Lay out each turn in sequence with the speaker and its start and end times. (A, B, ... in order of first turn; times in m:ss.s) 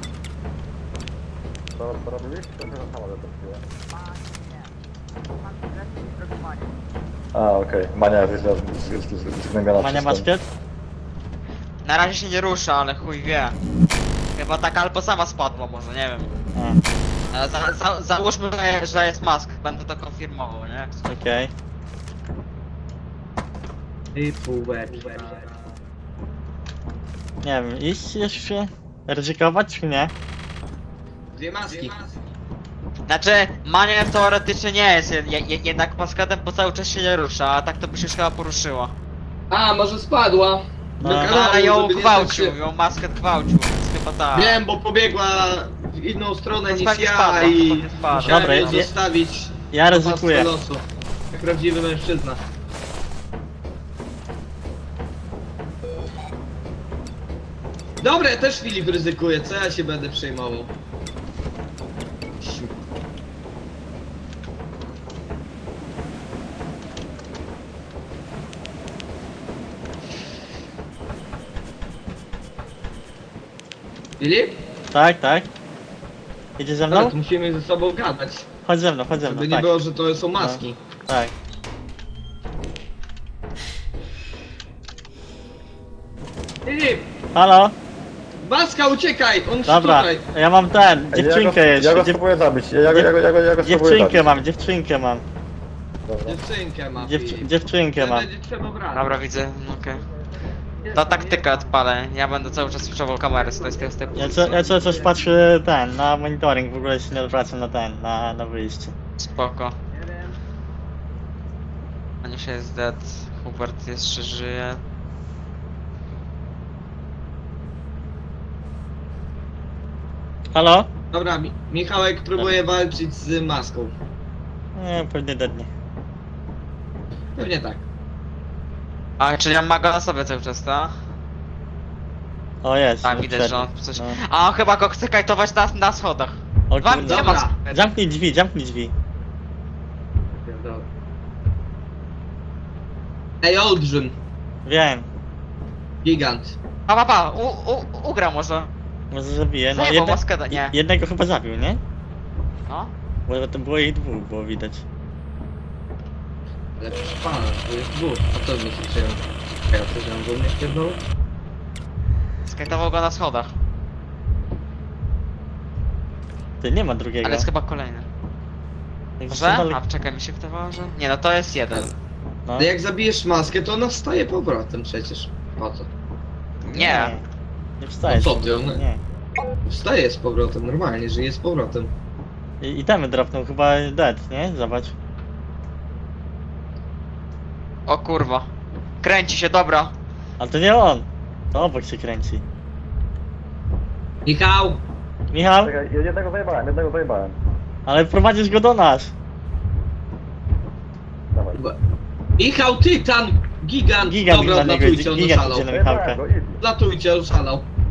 0:01.8-0:03.7 A
0:06.0-0:06.6 B
0:07.3-0:10.3 A
0:09.8-0:10.4 C
0:11.8-0:13.6 B
0:14.4-0:16.3 B
0:16.5-0:16.8 C
0:17.3-0:21.1 B
0:21.1-0:21.5 C
0:24.1-0:25.5 D
0:27.4-0:30.1 C
0:31.3-0:32.2 D
0:33.1-0:38.9 B
0:39.5-0:42.6 D
0:41.0-0:41.4 C
0:41.1-0:44.6 B
0:44.3-0:52.4 D
0:46.7-0:48.8 B
0:48.2-0:48.9 C
0:49.7-0:50.5 C
0:58.0-1:00.7 D
1:02.4-1:02.7 D
1:14.2-1:14.6 D
1:14.9-1:15.5 C
1:16.6-1:17.1 C
1:16.9-1:18.4 D
1:18.6-1:19.7 C
1:19.2-1:20.8 D
1:20.4-1:21.3 C
1:26.6-1:27.1 D
1:27.3-1:27.8 C
1:28.4-1:30.2 D
1:29.6-1:32.2 C
1:31.1-1:34.4 A
1:32.9-1:35.2 C
1:36.1-1:36.4 A
1:36.2-1:39.2 D
1:37.0-1:38.3 C
1:38.9-1:40.0 B
1:40.8-1:41.7 D
1:40.9-1:44.4 B
1:43.3-1:45.2 D
1:44.1-1:48.9 C
1:49.2-1:49.8 B
1:49.9-1:50.3 D
1:52.2-1:54.8 B
2:00.5-2:00.9 C
2:01.1-2:03.9 D
2:04.8-2:05.7 C
2:07.4-2:07.8 D
2:09.2-2:10.9 B
2:12.6-2:14.2 C
2:13.0-2:17.8 B
2:16.7-2:18.9 C
2:17.1-2:17.5 D
2:20.3-2:20.9 D
2:23.4-2:24.2 D
2:24.6-2:25.1 C
2:26.0-2:26.6 D
2:26.9-2:28.7 B
2:29.1-2:31.8 C
2:29.7-2:30.7 B
2:32.7-2:32.9 B
2:33.3-2:34.8 C
2:36.8-2:41.0 D
2:42.4-2:43.5 B
2:46.6-2:47.5 C
2:47.2-2:48.1 B
2:49.2-2:49.8 C
2:49.3-2:51.9 B
2:52.4-2:52.7 C
2:52.6-2:55.9 D
2:56.7-2:57.1 B
2:56.7-2:57.2 C
2:57.8-2:59.0 C
2:58.1-2:58.8 D
2:59.6-3:01.9 D
3:02.6-3:04.9 C
3:07.9-3:08.5 B
3:09.0-3:09.9 B
3:10.4-3:12.4 C
3:14.2-3:14.8 D
3:15.3-3:15.7 C
3:15.6-3:17.4 A
3:17.9-3:19.1 C
3:21.3-3:21.6 A
3:22.4-3:25.7 D
3:24.0-3:26.2 C
3:25.7-3:26.6 A
3:26.6-3:27.6 D